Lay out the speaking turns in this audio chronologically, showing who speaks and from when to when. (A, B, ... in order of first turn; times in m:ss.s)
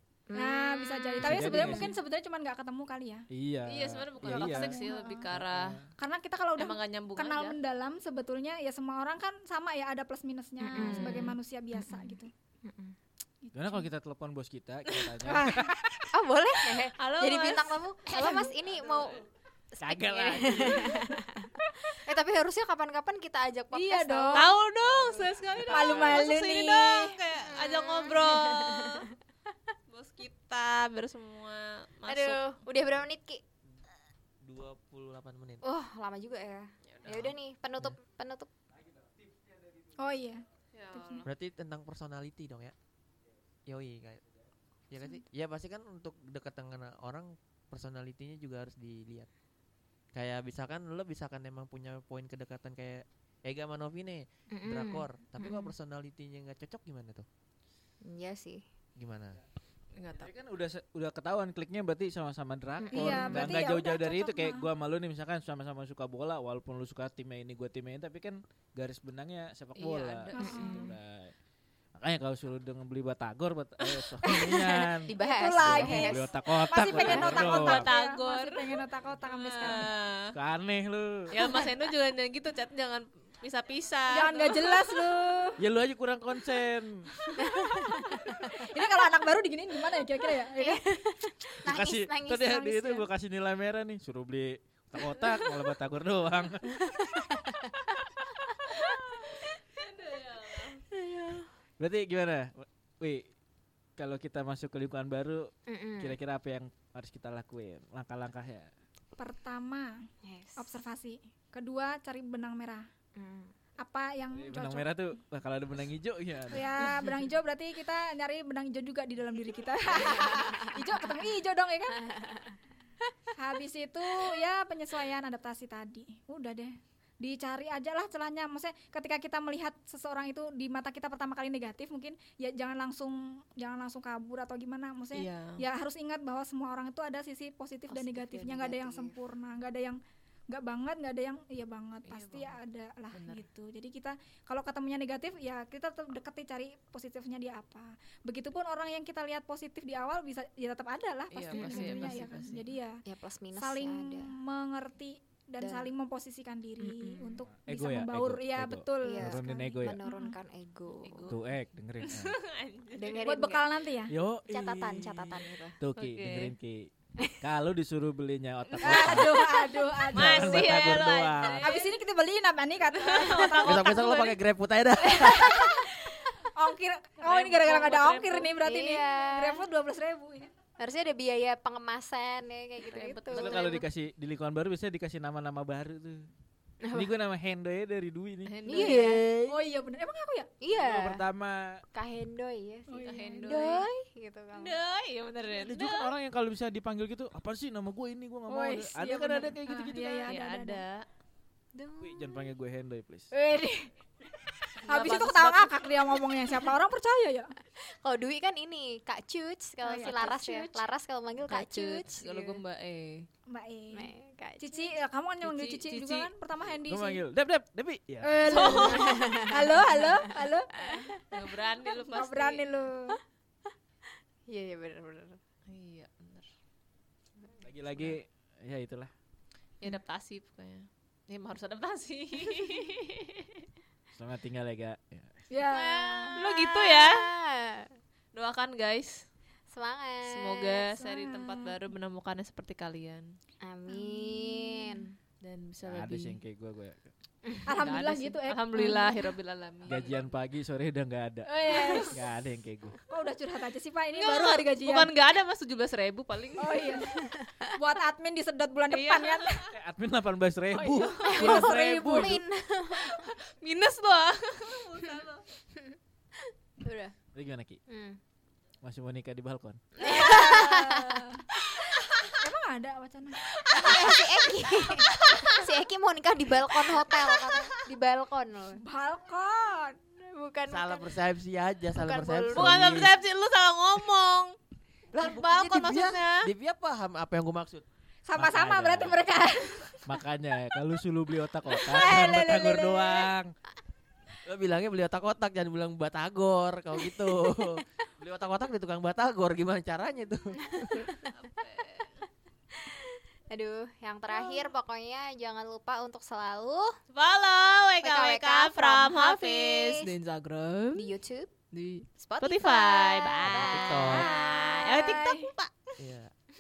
0:00.3-0:01.8 A
0:00.4-0:03.3 B
0:01.2-0:01.9 C
0:03.3-0:05.9 C
0:03.7-0:05.8 D
0:04.2-0:05.3 B
0:06.0-0:12.3 B
0:06.6-0:07.6 D
0:10.6-0:13.0 A
0:10.8-0:11.4 D
0:13.4-0:13.9 B
0:13.6-0:15.8 C
0:14.9-0:15.1 D
0:15.2-0:16.0 B
0:16.1-0:19.2 A
0:17.0-0:17.8 D
0:18.1-0:18.6 B
0:19.8-0:21.1 C
0:19.8-0:24.6 A
0:20.7-0:21.2 B
0:23.7-0:24.5 B
0:24.3-0:29.1 D
0:25.7-0:27.2 B
0:25.7-0:26.2 C
0:27.5-0:29.1 A
0:29.9-0:32.5 D
0:32.1-0:33.4 A
0:34.4-0:35.6 E
0:35.6-0:38.5 A
0:36.9-0:37.4 D
0:40.0-0:41.3 B
0:40.7-0:41.3 D
0:41.3-0:42.7 E
0:43.7-0:44.2 E
0:44.9-0:49.3 E
0:50.2-0:57.3 E
0:54.5-0:55.7 A
0:58.0-0:58.6 A
0:59.0-0:59.4 E
1:00.0-1:00.3 D
1:00.1-1:11.3 C
1:02.8-1:03.6 A
1:02.9-1:04.7 B
1:09.8-1:10.9 D
1:10.3-1:10.9 B
1:10.4-1:10.9 A
1:12.0-1:17.9 C
1:14.2-1:19.9 B
1:15.1-1:17.5 A
1:17.1-1:20.3 D
1:20.3-1:21.4 C
1:21.3-1:25.1 D
1:21.4-1:21.7 A
1:24.1-1:25.6 B
1:25.6-1:27.1 C
1:27.4-1:30.8 B
1:27.4-1:28.5 A
1:30.6-1:33.1 A
1:31.6-1:37.2 C
1:36.9-1:37.7 A
1:38.7-1:40.9 D
1:40.9-1:41.4 A
1:41.8-1:43.3 C
1:44.0-1:48.7 C
1:45.7-1:46.2 A
1:49.2-1:52.9 B
1:50.2-1:50.7 A
1:53.2-1:53.5 A
1:53.8-1:55.0 B
1:54.3-1:57.1 C
1:56.5-2:02.0 B
1:59.9-2:01.0 A
2:02.0-2:02.6 A
2:03.4-2:33.0 B
2:15.2-2:15.6 D
2:17.9-2:19.2 A
2:22.1-2:22.6 D
2:23.1-2:23.4 D
2:31.3-2:32.6 D
2:31.5-2:32.2 A
2:33.0-2:34.3 A
2:33.6-2:40.4 B
2:35.6-2:35.9 A
2:36.8-2:37.4 A
2:37.5-2:40.0 C
2:39.0-2:41.3 A
2:41.0-2:41.4 D
2:41.3-2:42.4 C
2:42.0-2:43.2 D
2:43.0-2:43.6 A
2:43.2-2:44.1 B
2:44.1-2:46.9 C
2:44.5-2:45.8 A
2:46.0-2:46.6 D
2:47.4-2:51.8 C
2:48.7-2:51.9 D
2:48.8-2:50.7 B
2:51.6-2:53.6 B
2:53.0-2:54.4 D
2:53.6-2:55.8 E
2:55.0-3:00.5 B
2:57.2-2:58.5 D
2:58.6-2:59.6 A
3:00.8-3:03.9 A
3:02.8-3:03.8 D
3:03.3-3:06.2 C
3:06.8-3:07.1 A
3:06.9-3:09.6 C
3:08.5-3:09.2 D
3:08.7-3:09.3 A
3:09.5-3:10.5 B
3:10.6-3:11.2 A
3:10.7-3:11.8 C
3:11.9-3:14.8 A
3:12.9-3:13.8 B
3:13.0-3:13.9 D
3:14.5-3:16.1 D
3:15.6-3:20.4 C
3:18.5-3:20.8 B
3:20.3-3:21.0 D
3:21.8-3:22.5 A
3:22.0-3:23.3 C
3:23.3-3:23.9 B
3:24.8-3:25.8 D
3:24.9-3:27.5 B
3:27.8-3:32.6 A
3:29.8-3:30.8 B
3:30.0-3:30.4 D
3:31.5-3:33.3 D
3:33.5-3:37.2 B
3:33.9-3:34.9 A
3:35.4-3:36.3 D
3:36.9-3:38.8 C
3:38.2-3:41.2 B
3:38.5-3:39.4 D
3:38.8-3:40.2 A
3:40.8-3:41.2 A
3:41.3-3:42.6 D
3:42.1-3:43.2 B
3:44.5-3:45.4 A
3:45.7-3:46.5 D
3:47.6-3:49.1 C
3:49.8-3:53.6 D
3:54.2-3:55.4 C
3:55.5-3:56.4 B
3:55.7-3:57.3 D
3:56.3-3:58.0 A
3:58.3-3:59.3 D
3:59.7-4:00.9 A
4:00.2-4:03.4 D
4:00.9-4:01.8 B
4:03.6-4:05.1 A
4:03.9-4:05.0 B
4:05.4-4:06.4 D
4:05.8-4:07.1 C
4:07.7-4:09.4 B
4:07.8-4:10.3 D
4:09.9-4:13.0 C
4:11.4-4:12.2 B
4:13.1-4:15.1 B
4:14.2-4:17.0 D
4:16.6-4:19.6 B
4:17.0-4:17.6 A
4:18.9-4:19.7 D
4:19.7-4:22.4 C
4:20.7-4:22.4 B
4:21.0-4:21.6 D
4:21.3-4:23.3 A
4:22.9-4:25.4 D
4:26.8-4:27.2 A
4:27.3-4:27.8 C
4:27.9-4:28.2 A
4:28.8-4:29.8 C
4:30.0-4:32.1 A
4:30.0-4:31.4 B
4:32.4-4:33.5 B
4:33.6-4:35.8 D
4:33.7-4:38.8 A
4:36.7-4:37.8 D
4:38.8-4:40.0 B
4:40.1-4:41.1 A
4:40.7-4:43.1 E
4:41.9-4:43.1 A
4:42.6-4:44.6 D
4:45.1-4:47.8 E
4:45.2-4:46.5 D
4:48.3-4:50.0 B
4:48.4-4:49.3 C
4:50.0-4:53.5 C
4:51.7-4:53.3 B
4:54.5-5:01.1 E
5:00.8-5:01.3 A
5:01.3-5:02.2 D
5:02.7-5:07.0 A
5:07.1-5:11.2 D
5:08.0-5:10.1 A
5:11.0-5:11.5 A
5:11.7-5:15.7 D
5:12.2-5:14.3 A
5:13.5-5:14.3 E
5:14.0-5:15.5 B
5:16.0-5:16.3 E